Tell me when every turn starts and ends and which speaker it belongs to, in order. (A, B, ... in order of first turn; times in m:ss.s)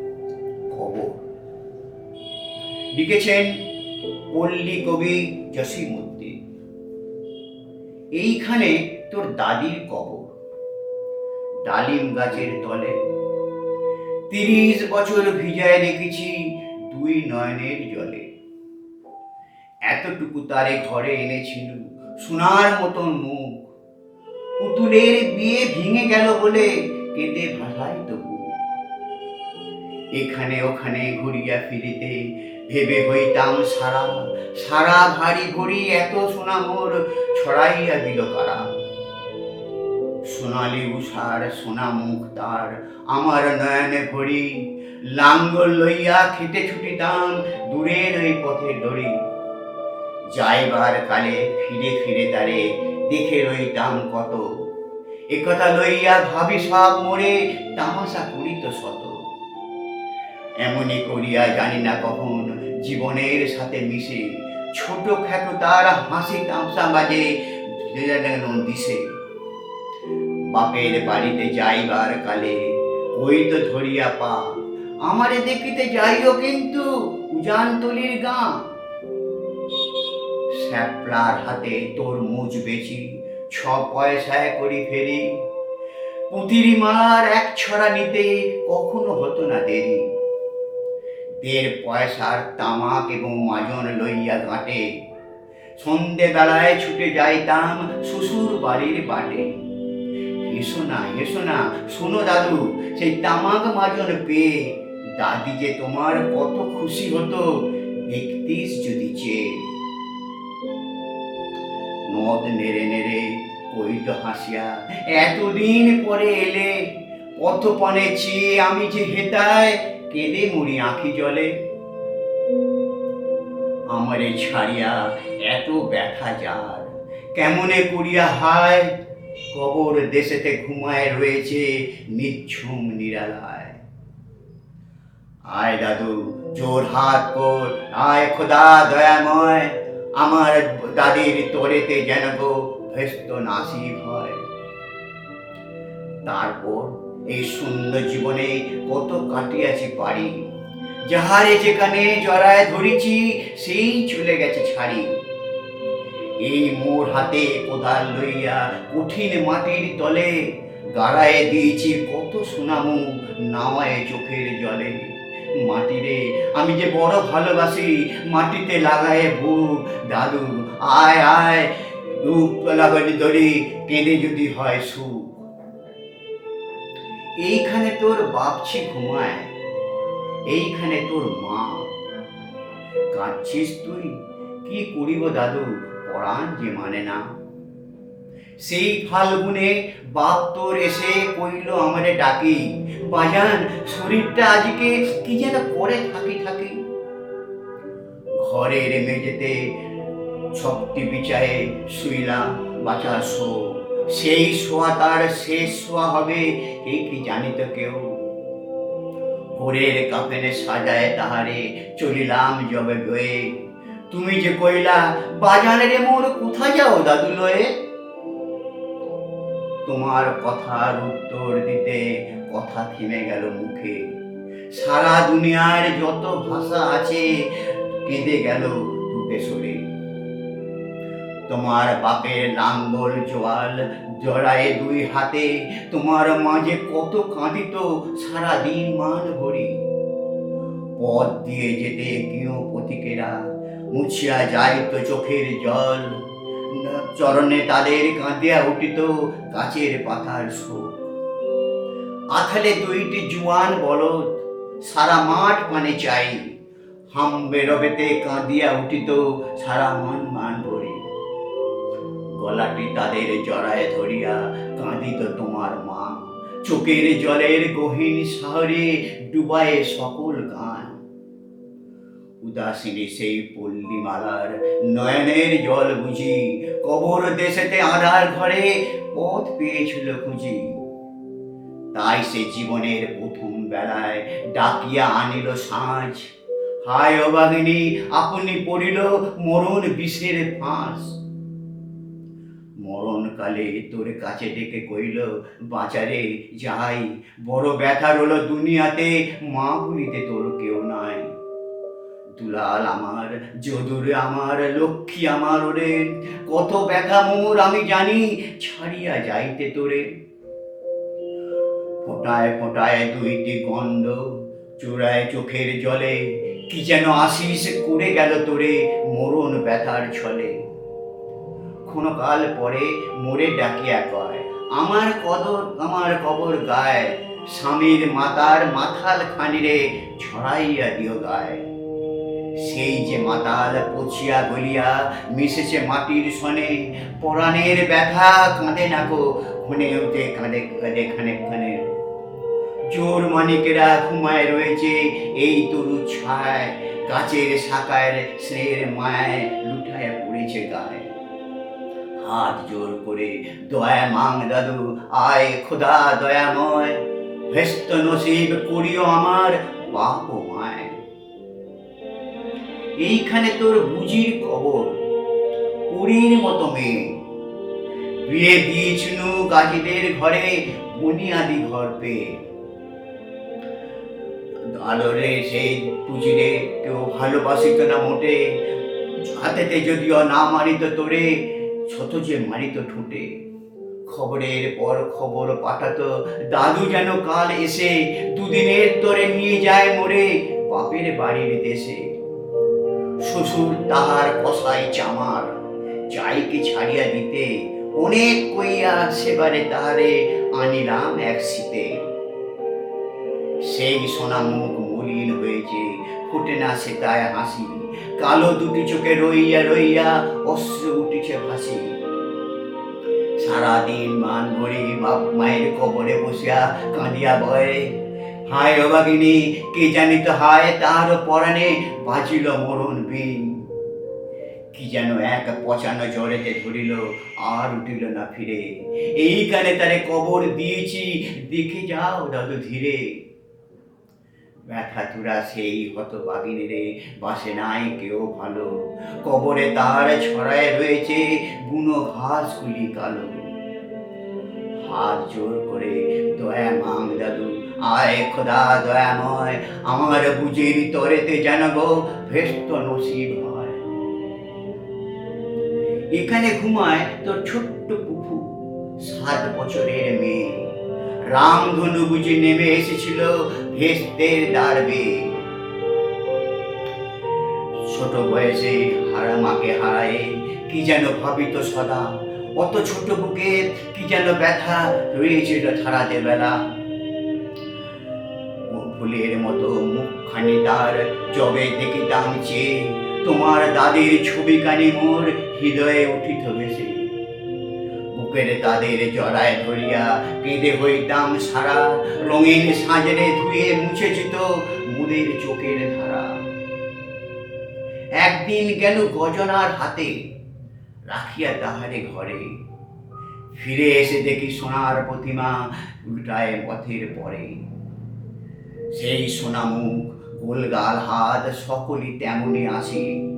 0:00.7-0:01.2 A
0:02.9-0:03.6 A
0:04.3-0:06.4 A
0:08.1-0:10.2 A
0:11.6-0:13.0 A
0:14.3-0:18.3 A
0:19.9-0:23.6 A
0:24.6-0:28.5 A
0:30.1-0:38.7 A
0:40.2-0:49.2 A
0:50.3-0:54.7 A
0:55.3-0:59.3 A
1:00.6-1:09.0 A
1:10.5-1:18.7 A
1:20.5-1:25.4 A
1:26.3-1:30.1 A
1:31.4-1:35.0 A
1:35.8-1:39.6 A
1:40.4-1:49.7 A
1:52.1-2:01.6 A
2:03.9-2:08.9 A
2:09.5-2:13.8 A
2:15.4-2:24.4 A
2:26.2-2:30.5 A
2:31.1-2:35.2 A
2:36.4-2:55.4 A
2:57.4-2:59.5 A
3:00.5-3:01.9 A
3:03.1-3:07.3 A
3:08.6-3:16.8 A
3:18.4-3:19.8 A
3:20.5-3:28.2 A
3:29.5-3:33.6 A
3:34.1-3:37.8 A
3:39.8-3:44.1 A
3:44.7-3:49.9 A
3:51.5-3:59.8 A
4:01.0-4:11.0 A
4:12.3-4:16.5 A
4:17.1-4:21.0 A
4:22.3-4:31.0 A
4:32.4-4:40.8 A
4:41.9-4:46.3 A
4:46.8-4:51.2 A
4:52.8-5:01.3 A
5:02.4-5:10.1 A
5:12.0-5:20.6 A
5:21.8-5:31.6 A
5:32.6-5:41.8 A
5:42.9-5:51.1 A
5:52.2-6:01.0 A
6:03.0-6:05.0 A
6:05.9-6:07.2 A
6:08.2-6:12.4 A
6:14.7-6:23.3 A
6:24.1-6:32.1 A
6:33.2-6:35.6 A
6:36.1-6:42.1 A
6:43.6-6:51.9 A
6:53.4-7:03.7 A
7:04.7-7:13.2 A
7:14.7-7:23.5 A
7:24.8-7:33.8 A
7:36.1-7:40.7 A
7:41.3-7:45.4 A
7:47.8-7:56.6 A
7:58.7-8:07.1 A
8:08.1-8:16.4 A
8:18.2-8:20.2 A
8:21.1-8:22.6 A
8:23.5-8:27.6 A
8:28.9-8:33.2 A